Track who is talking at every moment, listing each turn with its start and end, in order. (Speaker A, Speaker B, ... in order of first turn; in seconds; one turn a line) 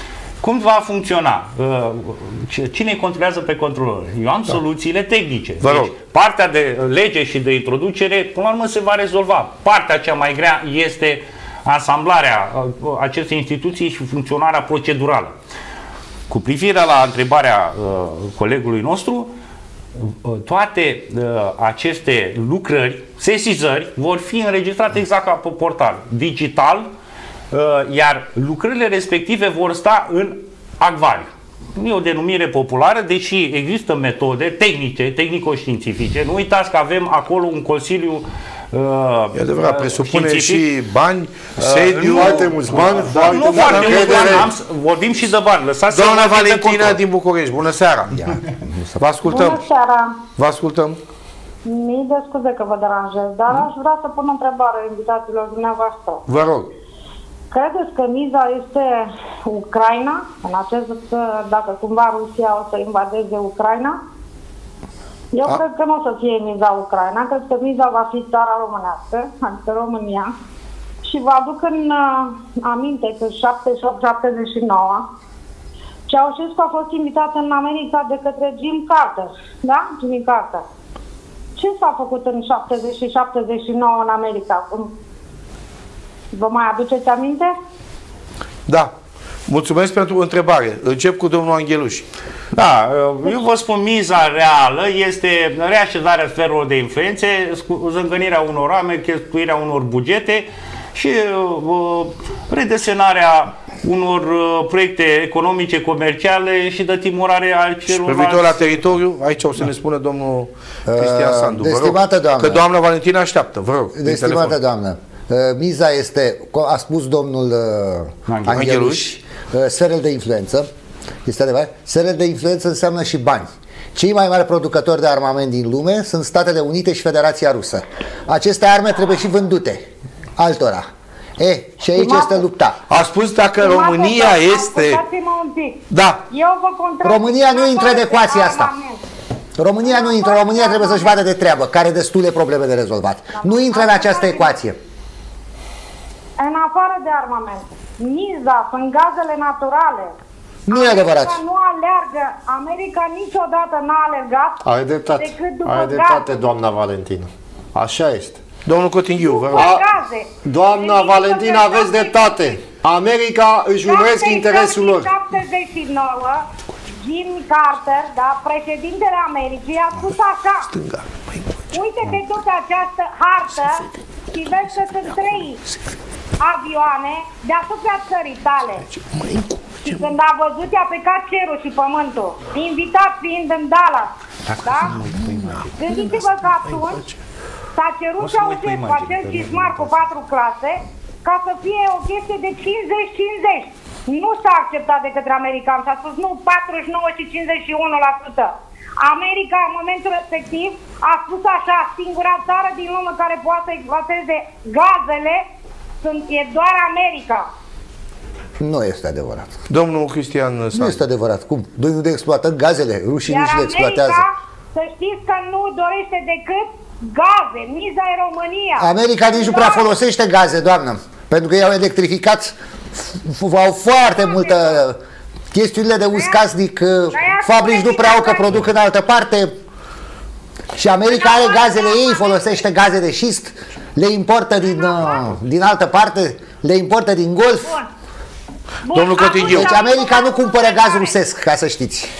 Speaker A: 0.4-15.3
Speaker B: 5.6-5.9
Speaker A: 16.3-19.3
Speaker A: 19.9-26.9
Speaker A: 27.5-40.7
Speaker B: 39.3-44.5
Speaker A: 41.6-47.0
Speaker C: 41.9-44.5
Speaker B: 45.9-48.3
Speaker D: 48.1-49.0
Speaker B: 49.0-49.6
Speaker E: 49.2-50.1
Speaker B: 50.4-51.0
Speaker E: 51.6-56.2
Speaker B: 56.3-56.7
Speaker E: 57.5-64.0
Speaker E: 65.3-70.3
Speaker E: 71.0-75.0
Speaker E: 76.1-80.6
Speaker E: 81.6-84.9
Speaker E: 86.3-87.5
Speaker B: 89.5-92.0
Speaker A: 92.5-108.6
Speaker B: 107.9-114.6
Speaker D: 110.8-112.6
Speaker D: 113.9-120.7
Speaker A: 118.3-118.7
Speaker B: 118.5-119.0
Speaker D: 121.2-129.9
Speaker D: 130.4-130.9
Speaker D: 131.4-132.8
Speaker E: 131.9-132.4
Speaker B: 132.9-135.0
Speaker E: 133.6-139.0
Speaker B: 135.9-136.2
Speaker D: 137.0-138.7
Speaker D: 139.6-144.8
Speaker E: 139.8-141.2
Speaker E: 143.3-144.6
Speaker E: 146.4-150.1
Speaker D: 150.7-151.4
Speaker E: 150.7-154.6
Speaker C: 154.6-158.4
Speaker E: 155.2-156.4
Speaker B: 158.6-159.8
Speaker E: 159.2-162.4
Speaker C: 159.5-159.8
Speaker C: 160.4-165.1
Speaker E: 163.8-166.4
Speaker E: 167.0-170.7
Speaker B: 170.7-172.1
Speaker E: 171.7-175.6
Speaker E: 176.4-178.8
Speaker B: 178.9-180.0
Speaker E: 179.8-184.9
Speaker A: 184.5-185.6
Speaker B: 184.9-186.1
Speaker E: 185.8-187.0
Speaker E: 187.8-205.4
Speaker A: 188.2-190.1
Speaker E: 206.0-207.5
Speaker D: 208.6-209.5
Speaker B: 209.7-211.0
Speaker D: 210.7-214.2
Speaker E: 213.2-219.9
Speaker D: 218.8-225.0
Speaker E: 224.0-224.8
Speaker D: 225.5-229.5
Speaker E: 226.1-226.4
Speaker E: 227.1-228.6
Speaker D: 230.7-237.8
Speaker E: 231.0-232.4
Speaker E: 234.7-235.2
Speaker E: 238.8-241.2
Speaker B: 238.9-239.7
Speaker D: 239.3-242.1